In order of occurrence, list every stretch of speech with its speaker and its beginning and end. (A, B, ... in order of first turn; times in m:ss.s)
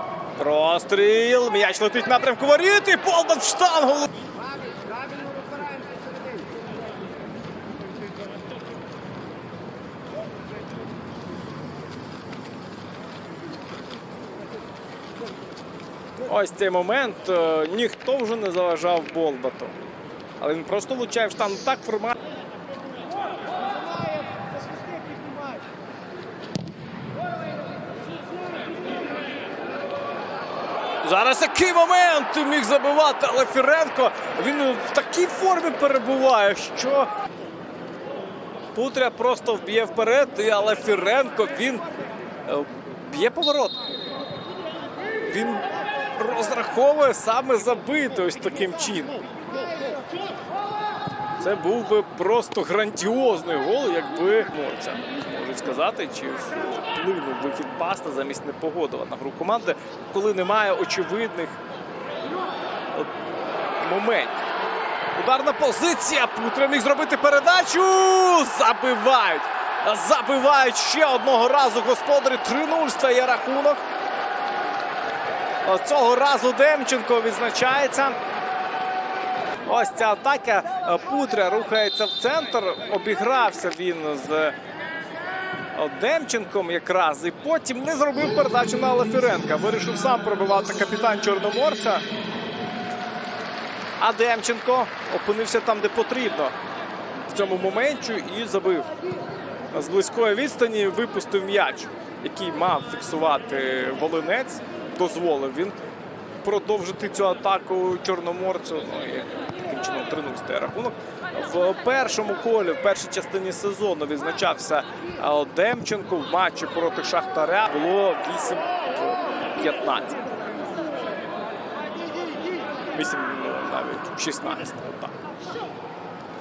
0:00.4-0:04.2 A
0:16.2-0:19.7 A
0:20.4-0:22.2 A
0:31.0-0:37.1 A
0:38.8-0:41.8 A
0:42.4-0:43.8 A
0:45.3-0:49.2 A
0:51.4-1:01.6 A
1:03.8-1:04.4 A
1:05.2-1:13.8 A
1:15.6-1:18.2 A
1:19.6-1:24.6 A
1:25.7-1:32.0 A
1:34.0-1:36.5 A
1:37.3-1:38.9 A
1:39.7-1:45.8 A
1:46.4-2:00.3 A
2:02.9-2:05.1 A